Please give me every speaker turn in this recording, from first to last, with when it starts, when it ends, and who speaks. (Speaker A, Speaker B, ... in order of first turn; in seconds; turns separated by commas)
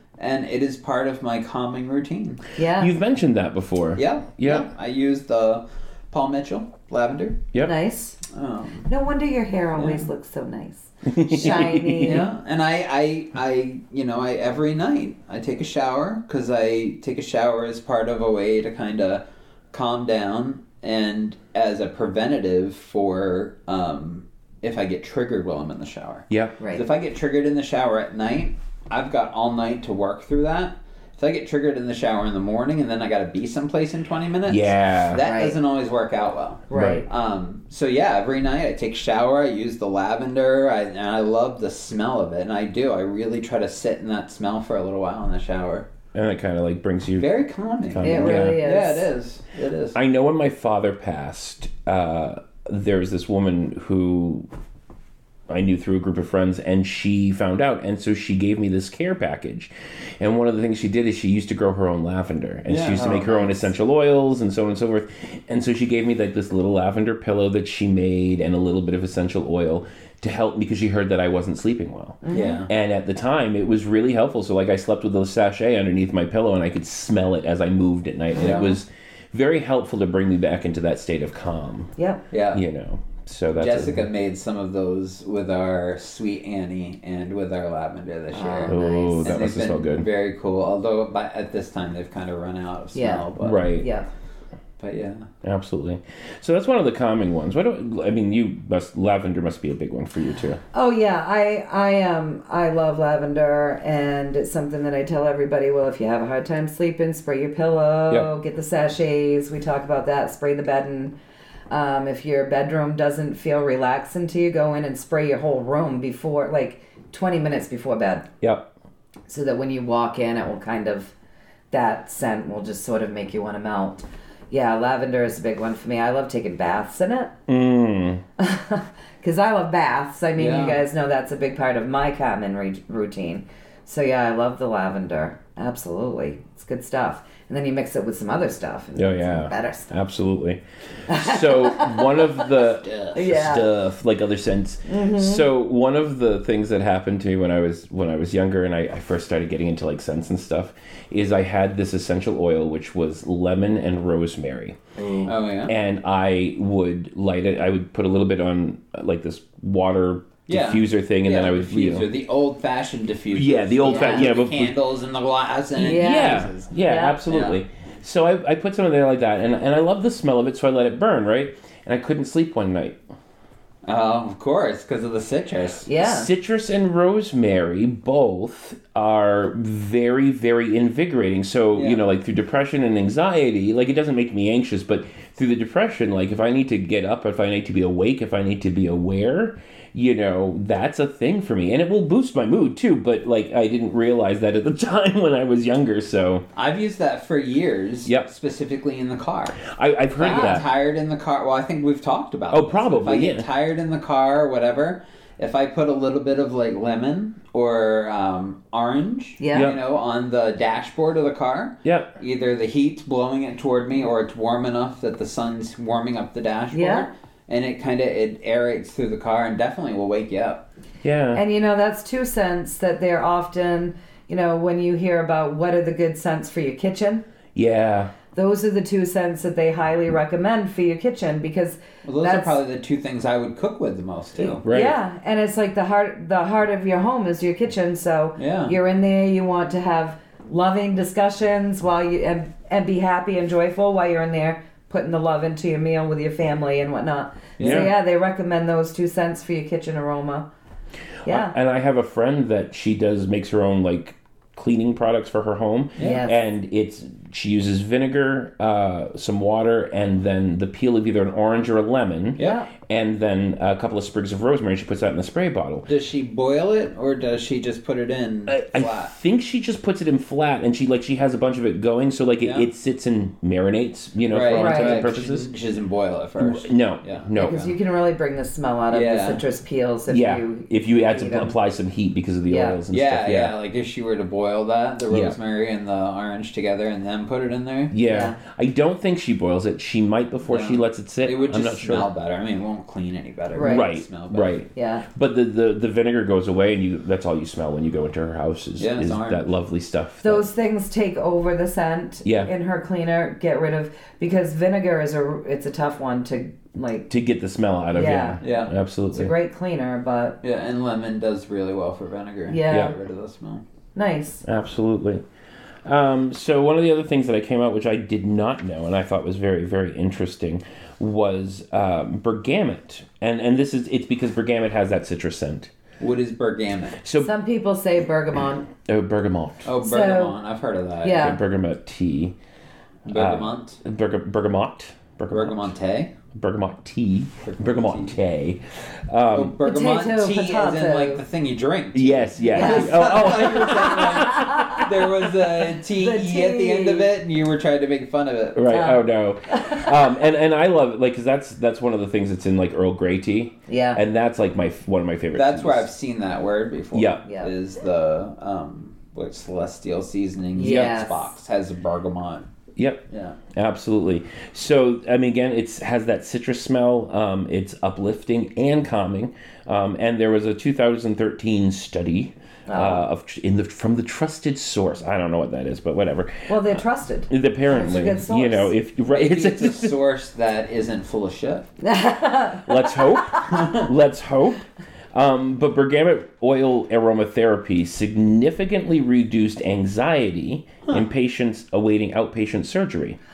Speaker A: 0.2-2.4, Speaker B: 2.5-2.9, Speaker C: 2.8-4.7, Speaker A: 4.0-7.5, Speaker B: 7.6-8.2, Speaker A: 8.3-8.9, Speaker B: 8.9-12.3, Speaker A: 9.8-10.1, Speaker C: 11.1-12.2, Speaker A: 12.0-45.9, Speaker C: 26.3-26.6, Speaker C: 34.5-35.3, Speaker B: 35.2-35.6, Speaker B: 36.7-37.1, Speaker C: 36.7-37.0, Speaker C: 46.1-48.6, Speaker A: 47.2-50.0, Speaker B: 48.0-49.1, Speaker C: 49.9-54.5, Speaker C: 55.5-81.9, Speaker A: 62.7-63.3, Speaker B: 62.9-63.7, Speaker B: 72.2-72.6, Speaker A: 72.3-72.7, Speaker A: 78.4-78.8, Speaker B: 82.0-82.2, Speaker A: 82.3-82.6, Speaker C: 82.5-84.0, Speaker A: 83.6-93.6, Speaker B: 88.3-89.4, Speaker C: 88.7-90.1, Speaker B: 92.9-94.1, Speaker C: 93.4-93.9, Speaker A: 94.8-95.3, Speaker C: 95.4-100.6, Speaker B: 100.7-111.2, Speaker B: 111.7-118.3, Speaker C: 118.4-118.7, Speaker B: 119.3-121.1, Speaker B: 121.7-127.3, Speaker C: 127.5-128.2, Speaker B: 128.4-139.9, Speaker A: 130.4-130.8, Speaker C: 138.9-162.1, Speaker B: 141.1-142.4, Speaker B: 143.1-143.7, Speaker B: 144.9-145.4, Speaker A: 155.2-155.7, Speaker A: 160.5-166.7, Speaker C: 163.3-164.8, Speaker B: 163.9-164.3, Speaker B: 165.8-167.2, Speaker C: 165.8-173.0, Speaker A: 167.3-167.6, Speaker A: 173.9-175.9, Speaker B: 175.9-176.3, Speaker C: 176.0-196.4, Speaker A: 181.7-182.0, Speaker A: 196.6-199.6, Speaker C: 199.6-200.7, Speaker A: 200.2-220.7, Speaker B: 200.2-200.6, Speaker C: 202.5-203.5, Speaker B: 209.4-209.7, Speaker C: 209.5-209.8, Speaker C: 211.8-212.2, Speaker B: 216.7-217.1, Speaker C: 221.0-221.4, Speaker B: 221.3-227.2, Speaker C: 227.6-228.1, Speaker B: 228.3-232.6, Speaker A: 232.0-234.6, Speaker B: 234.4-250.5, Speaker C: 234.6-234.9, Speaker A: 238.4-238.8, Speaker A: 247.6-247.8, Speaker C: 247.6-247.9, Speaker B: 251.2-251.6, Speaker C: 251.2-265.9, Speaker A: 256.0-256.2, Speaker B: 256.0-256.3, Speaker B: 262.4-262.7, Speaker A: 265.9-269.1, Speaker C: 268.5-275.6, Speaker A: 272.4-272.7, Speaker A: 274.3-277.6, Speaker B: 274.5-275.1, Speaker C: 276.4-277.7, Speaker B: 277.4-281.6, Speaker A: 278.9-279.4, Speaker C: 280.1-283.6, Speaker B: 282.5-282.8, Speaker A: 282.9-287.9, Speaker C: 285.1-285.4, Speaker C: 287.9-292.1, Speaker B: 288.0-288.4, Speaker A: 290.5-294.6, Speaker B: 293.5-293.9, Speaker C: 293.6-300.4, Speaker B: 294.7-295.1, Speaker A: 298.8-299.4, Speaker B: 300.2-307.1, Speaker C: 302.2-302.5, Speaker C: 307.1-309.3, Speaker B: 307.9-308.4, Speaker A: 308.4-308.7, Speaker B: 309.1-310.4, Speaker A: 310.4-313.6, Speaker B: 312.5-313.0, Speaker C: 312.7-312.9, Speaker B: 313.9-314.4, Speaker C: 314.4-315.2, Speaker C: 315.9-325.7, Speaker A: 326.0-327.0, Speaker C: 327.0-327.3, Speaker B: 327.2-328.7, Speaker C: 328.9-329.7, Speaker A: 329.6-331.3, Speaker B: 329.8-330.4, Speaker B: 331.0-331.4, Speaker C: 331.2-332.4, Speaker A: 333.1-333.8, Speaker C: 333.1-335.7, Speaker A: 335.3-336.1, Speaker C: 336.3-339.6, Speaker A: 337.4-338.2, Speaker A: 339.3-348.8, Speaker B: 339.6-341.2, Speaker C: 341.9-344.8, Speaker B: 342.5-345.1, Speaker B: 345.7-347.1, Speaker C: 348.5-355.9, Speaker B: 348.7-349.9, Speaker B: 353.7-354.0, Speaker A: 355.3-362.5, Speaker C: 356.9-357.2, Speaker B: 357.2-357.5, Speaker B: 360.5-361.3, Speaker C: 360.6-361.0, Speaker C: 362.8-380.0, Speaker A: 363.1-363.4, Speaker B: 372.7-373.1, Speaker B: 376.5-378.7, Speaker A: 379.1-381.7, Speaker B: 381.8-383.6, Speaker C: 382.6-393.2, Speaker A: 383.5-383.9